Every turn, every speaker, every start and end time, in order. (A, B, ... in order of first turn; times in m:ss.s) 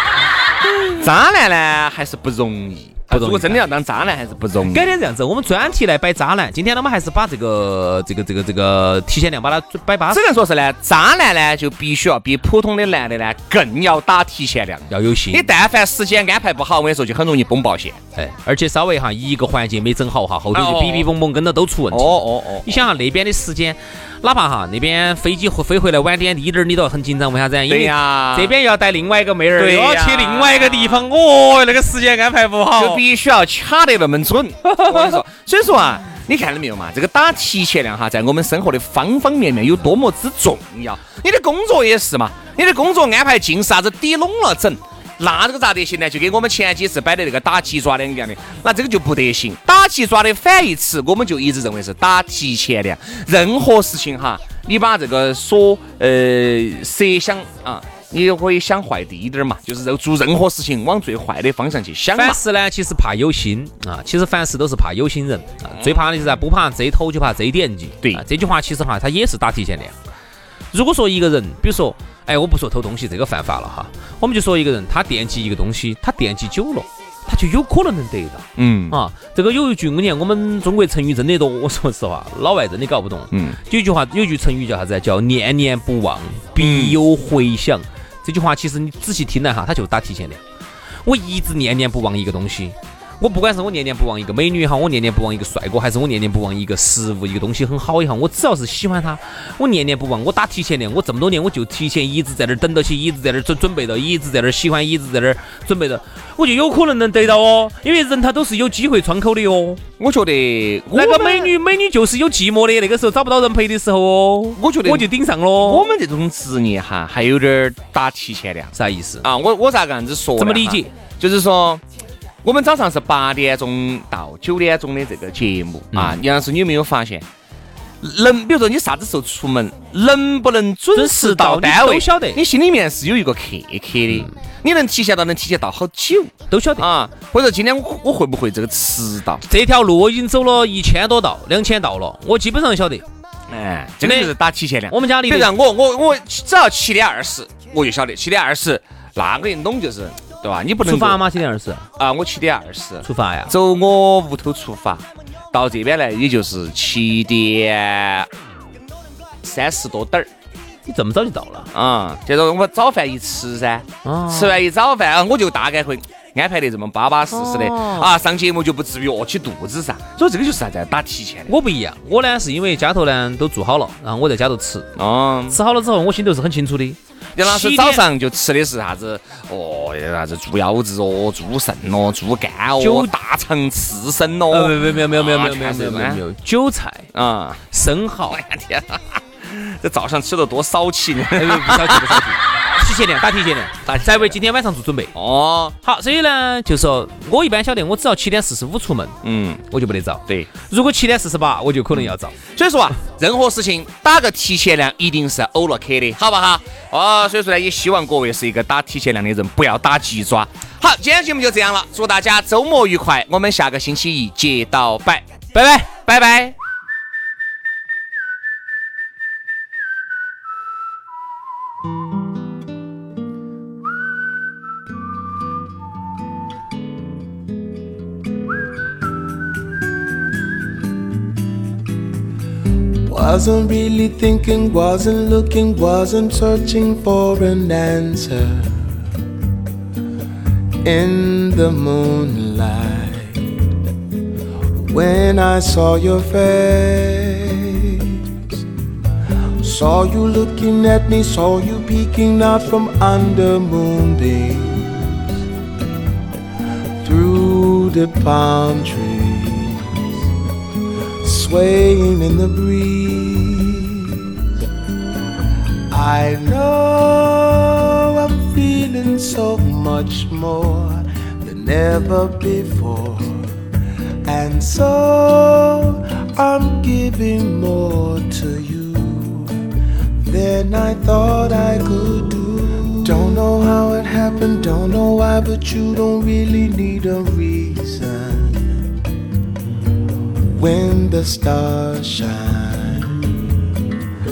0:01.0-0:04.9 A
0:04.8-0:10.1 B
0:10.1-0:18.0 A
0:14.9-0:15.4 B
0:18.2-0:22.0 B
0:20.5-0:21.1 A
0:21.9-0:22.8 A
0:22.7-0:33.0 B
0:27.7-0:28.6 A
0:29.6-0:31.0 A
0:32.8-1:02.4 A
1:02.2-1:09.9 B
1:05.7-1:06.1 A
1:10.7-1:30.4 B
1:18.6-1:19.0 A
1:23.3-1:23.6 A
1:26.6-1:27.0 A
1:31.0-1:49.8 B
1:50.0-1:51.5 A
1:51.0-1:55.8 B
1:54.6-1:55.1 A
1:55.6-2:01.8 A
1:58.8-1:59.2 B
2:00.4-2:00.8 B
2:02.4-2:07.2 A
2:08.0-2:19.4 A
2:11.0-2:12.4 B
2:19.5-2:23.0 B
2:23.5-2:31.2 A
2:24.9-2:25.4 B
2:30.9-2:31.8 B
2:32.0-2:38.3 A
2:33.1-2:33.5 B
2:39.4-2:40.3 A
2:40.9-2:41.6 B
2:41.7-2:51.5 A
2:44.1-2:44.3 B
2:51.5-2:54.8 B
2:55.0-2:55.6 A
2:55.5-2:57.0 B
2:57.4-3:06.2 A
3:04.6-3:07.0 B
3:07.1-3:07.6 A
3:07.7-3:08.4 B
3:08.5-3:12.3 A
3:11.4-3:15.1 B
3:13.8-3:14.4 A
3:15.1-3:15.8 A
3:15.9-3:19.1 B
3:19.2-3:19.6 A
3:19.7-3:22.3 B
3:21.9-3:35.2 A
3:36.0-3:36.5 A
3:53.1-3:58.8 C
4:00.8-4:03.5 C
4:04.9-4:08.6 C
4:09.6-4:15.2 C
4:17.0-4:20.0 C
4:21.2-4:24.4 C
4:25.9-4:33.5 C
4:34.2-4:39.6 C
4:40.2-4:48.8 C
4:50.5-4:53.4 C